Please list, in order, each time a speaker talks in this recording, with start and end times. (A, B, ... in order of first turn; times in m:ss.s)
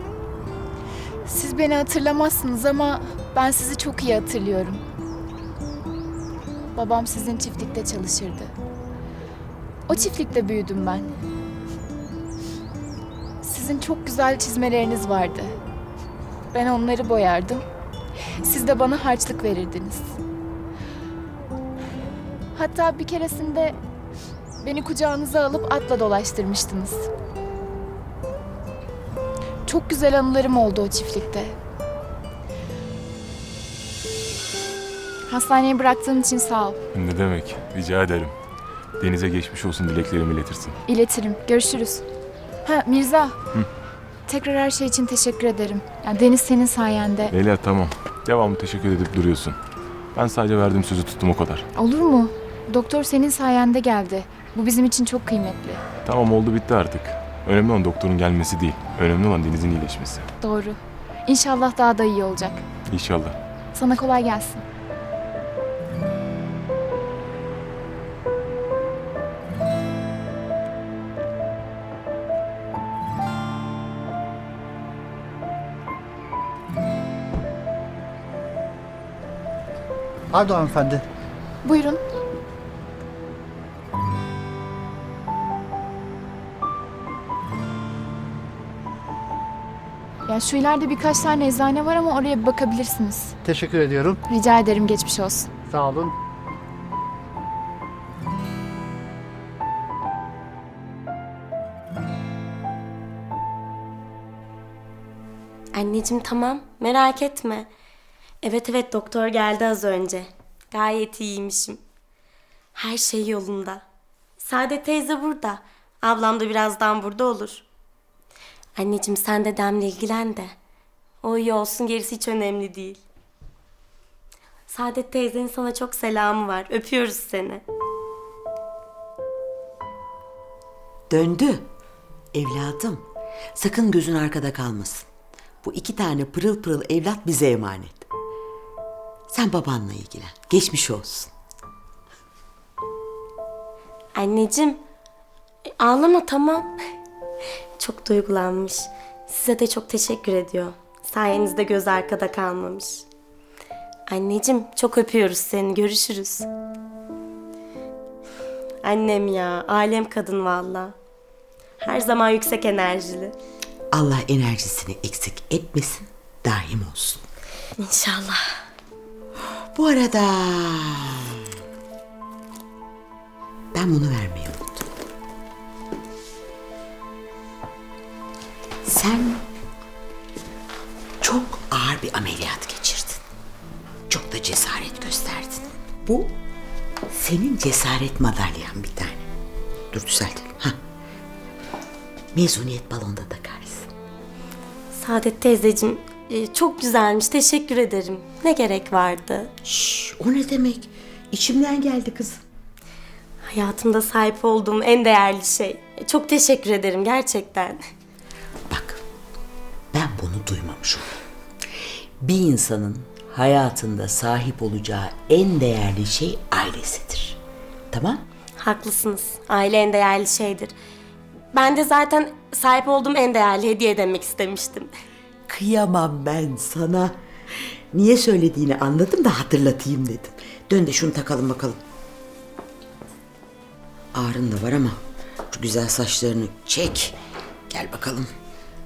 0:01.2-0:04.8 A
0:06.7-0:08.5 A
0:09.9-0:11.1 A
0:13.4-0:15.5 A
0:16.5-0:17.6 A
0:18.4-0:20.2 A
0:22.5-0:23.8 A
0:24.6-0:27.1 A
0:29.6-0:31.6 A
0:35.3-0:36.8 A
0:36.9-0:38.3 B
0:39.0-0:40.8 B
0:40.9-0:42.0 A
0:42.6-0:43.4 A
0:44.3-0:47.3 A
0:47.3-0:49.6 B
0:50.1-0:51.6 B
0:51.8-0:55.8 A
0:56.0-1:00.3 B
1:00.4-1:02.6 A
1:02.9-1:03.4 B
1:03.7-1:04.6 A
1:20.3-1:21.0 C
1:21.6-1:22.0 A
1:30.2-1:33.4 A
1:33.4-1:34.2 C
1:34.3-1:35.5 A
1:35.7-1:36.1 C
1:45.7-1:47.7 D
1:48.4-1:51.8 D
1:52.7-1:53.8 D
1:54.4-1:57.6 D
1:58.8-2:00.5 D
2:01.2-2:03.0 D
2:04.7-2:07.6 D
2:11.1-2:11.7 E
2:12.3-2:15.1 E
2:15.6-2:18.1 E
2:19.3-2:21.3 E
2:24.2-2:24.8 D
2:25.8-2:26.7 D
2:27.8-2:33.0 D
2:34.1-2:36.5 D
2:38.8-2:41.0 D
2:41.8-2:43.3 D
2:43.9-2:47.2 E
2:47.8-2:48.4 D
2:49.4-2:51.5 E
2:53.7-2:54.9 E
2:58.8-2:59.4 E
3:01.2-3:03.2 E
3:04.1-3:06.3 E
3:07.1-3:09.3 E
3:09.9-3:10.8 E
3:12.3-3:13.9 E
3:14.9-3:19.5 D
3:19.6-3:22.4 E
3:23.4-3:27.8 D
3:28.7-3:29.0 E
3:29.9-3:31.1 E
3:32.2-3:37.4 E
3:37.9-3:38.2 E
3:38.6-3:40.7 D
3:41.5-3:44.9 D
3:45.5-3:51.8 E
3:54.1-3:55.0 E
3:55.5-3:57.1 E
3:57.7-3:58.3 E